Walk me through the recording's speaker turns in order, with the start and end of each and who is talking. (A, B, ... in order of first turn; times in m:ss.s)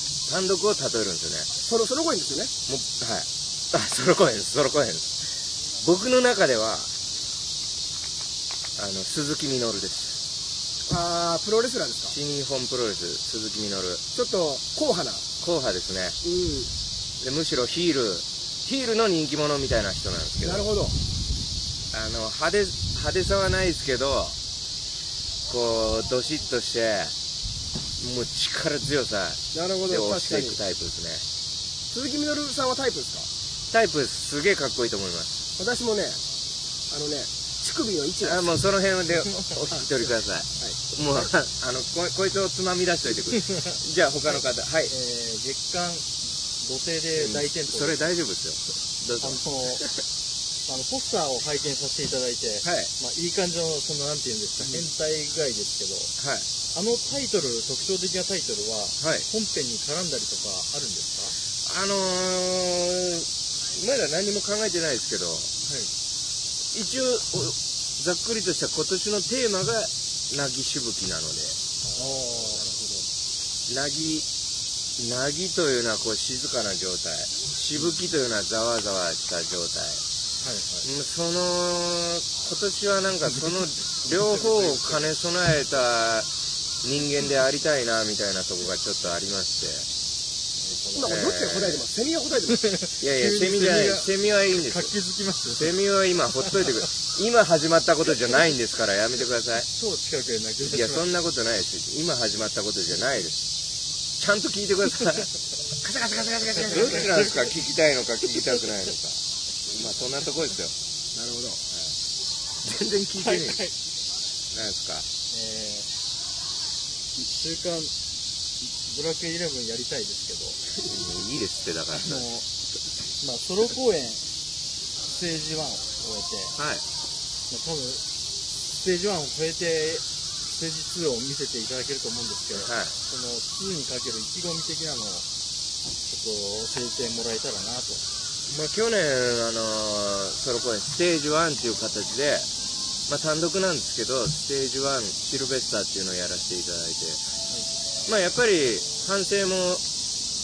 0:00.3-0:01.5 A
0:01.6-0:02.5 B
0:02.7-0:05.2 A
0:05.8-0:06.9 A
0:08.8-0:10.2 A
0:10.9-0:12.2 B
0:12.1-0:14.0 A
0:14.2-0:15.2 B
0:15.4-0:16.2 A
0:16.2-0:16.7 B
0:17.2-0:20.7 A
0:20.4-0:21.0 B
0:21.9-0:24.4 A
0:25.5-0:27.1 A
0:28.0-0:31.2 A
0:29.5-0:30.6 B
0:31.9-0:33.3 B
0:33.7-0:35.4 A
0:35.6-0:36.2 B
0:36.9-0:38.4 B
0:38.2-0:44.9 A
0:44.9-0:48.0 C
0:47.2-0:49.9 A
0:49.2-0:49.9 C
0:50.7-0:56.1 C
0:52.6-0:52.9 A
0:56.2-0:56.5 A
0:56.7-1:01.4 C
0:59.0-0:59.3 A
1:01.6-1:05.5 A
1:05.6-1:05.9 C
1:06.7-1:11.6 A
1:12.0-1:12.6 C
1:12.5-1:13.0 B
1:13.7-1:14.3 A
1:15.0-1:20.0 A
1:20.4-1:20.9 C
1:20.8-1:26.3 A
1:24.2-1:25.0 C
1:26.8-1:29.9 A
1:30.6-1:31.2 C
1:31.0-1:32.6 B
1:31.0-1:31.8 A
1:32.6-1:35.8 C
1:33.0-1:34.9 A
1:35.6-1:39.7 A
1:39.7-1:41.1 C
1:40.6-1:43.4 A
1:44.2-1:50.8 A
1:46.7-1:47.6 C
1:51.1-1:51.6 B
1:52.6-1:53.6 A
1:53.2-1:53.8 C
1:54.5-1:55.1 A
1:55.3-1:55.9 C
1:57.2-1:57.9 C
1:58.6-2:00.6 C
2:00.8-2:02.3 A
2:01.9-2:02.5 C
2:03.2-2:04.2 C
2:05.1-2:06.6 C
2:06.6-2:06.8 A
2:07.5-2:08.0 C
2:08.7-2:15.3 C
2:12.5-2:13.0 A
2:16.0-2:18.0 C
2:18.5-2:22.5 A
2:23.1-2:27.2 A
2:28.1-2:29.8 A